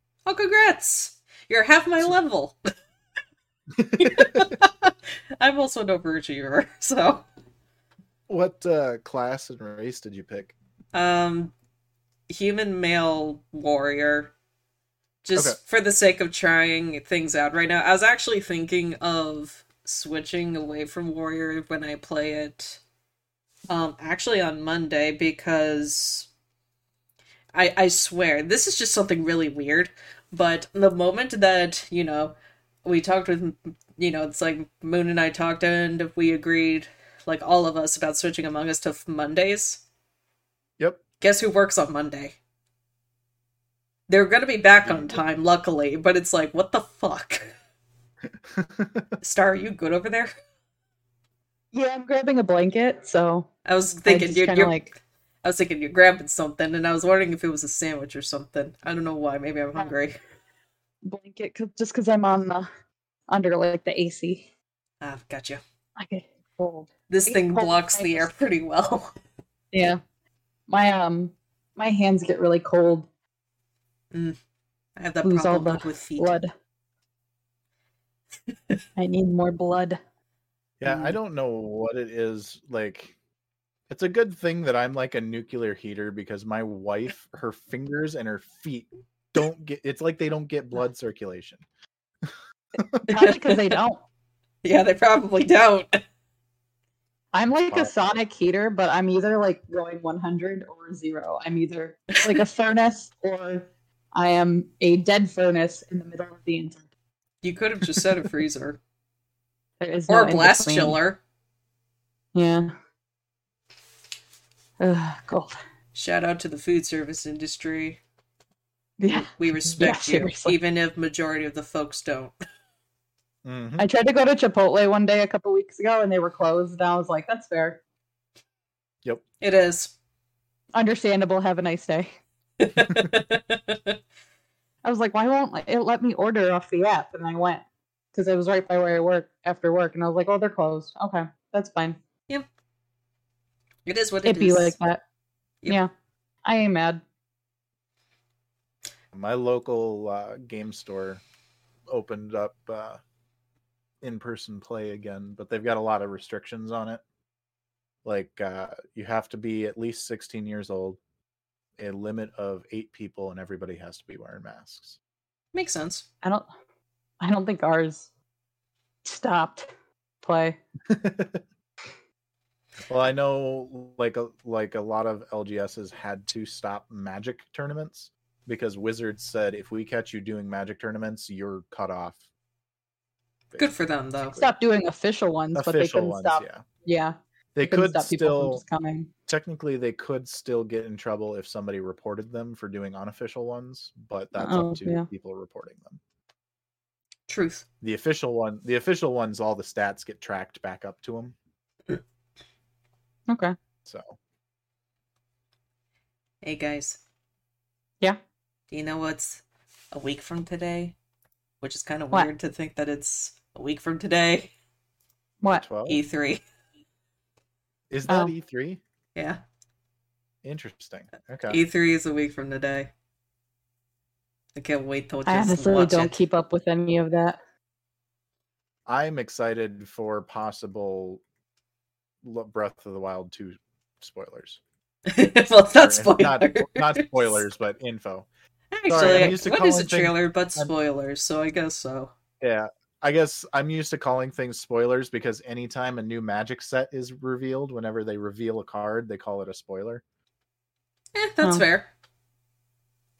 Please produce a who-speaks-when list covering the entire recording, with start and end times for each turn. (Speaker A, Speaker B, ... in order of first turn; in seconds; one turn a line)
Speaker A: 0.2-2.5
Speaker B: 3.8-4.5
Speaker A: 4.0-7.2
Speaker B: 8.3-10.5
Speaker A: 10.9-11.5
Speaker A: 12.3-14.3
Speaker A: 15.2-22.8
Speaker A: 23.7-26.3
Speaker A: 27.5-39.8
Speaker A: 41.2-42.4
Speaker A: 44.1-47.5
Speaker B: 44.8-45.2
Speaker B: 48.5-49.1
Speaker A: 49.2-50.3
Speaker C: 51.7-53.5
Speaker A: 53.6-54.9
Speaker C: 54.1-54.9
Speaker A: 55.4-60.2
Speaker C: 61.0-62.7
Speaker C: 63.3-64.5
Speaker A: 65.0-65.6
Speaker C: 66.0-68.3
Speaker A: 67.1-69.1
Speaker C: 69.7-70.0
Speaker C: 70.7-73.1
Speaker A: 75.0-76.3
Speaker C: 75.2-76.5
Speaker C: 79.0-80.0
Speaker B: 80.8-83.1
Speaker A: 80.9-81.1
Speaker B: 83.9-91.6
Speaker B: 92.8-93.1
Speaker A: 93.1-93.8
Speaker C: 93.1-94.0
Speaker A: 94.6-95.9
Speaker C: 97.3-106.8
Speaker B: 97.7-97.9
Speaker A: 107.4-108.8
Speaker C: 109.8-111.0
Speaker A: 110.1-111.2
Speaker C: 112.3-112.7
Speaker C: 114.8-115.5
Speaker A: 115.9-118.0
Speaker C: 119.0-120.5
Speaker A: 119.4-122.3
Speaker B: 123.5-123.9
Speaker C: 123.8-127.8
Speaker A: 129.4-129.9
Speaker C: 130.8-132.1
Speaker A: 132.6-134.0
Speaker B: 132.9-133.2
Speaker C: 134.8-137.6
Speaker C: 138.1-142.0
Speaker A: 143.8-144.8
Speaker C: 144.2-145.0
Speaker C: 146.4-147.0
Speaker B: 149.1-151.2
Speaker B: 151.9-153.0
Speaker B: 154.0-157.0
Speaker B: 158.1-161.0
Speaker B: 161.8-165.0
Speaker A: 165.5-166.1
Speaker C: 166.2-166.5
Speaker C: 167.2-168.1
Speaker C: 169.1-169.7
Speaker C: 170.2-170.6
Speaker B: 170.9-171.4
Speaker B: 172.9-182.2
Speaker A: 183.6-184.4
Speaker B: 184.2-184.5
Speaker C: 184.4-189.1
Speaker B: 185.6-186.6
Speaker B: 187.5-188.6
Speaker B: 189.3-196.0
Speaker C: 194.3-195.1
Speaker A: 197.3-197.7
Speaker B: 197.8-201.3
Speaker C: 203.3-203.6
Speaker B: 203.8-204.2
Speaker A: 206.4-207.0
Speaker A: 208.7-210.9
Speaker A: 211.6-214.5
Speaker B: 215.5-216.0
Speaker A: 215.8-216.4
Speaker B: 217.9-218.8
Speaker A: 219.2-219.4
Speaker B: 220.4-221.6
Speaker A: 221.5-222.9
Speaker A: 224.6-226.2
Speaker C: 225.3-227.4
Speaker B: 228.9-231.2
Speaker B: 232.2-234.6
Speaker A: 235.1-237.4
Speaker B: 235.8-238.3
Speaker A: 238.7-242.1
Speaker B: 238.9-240.7
Speaker B: 242.4-250.0
Speaker A: 251.2-251.9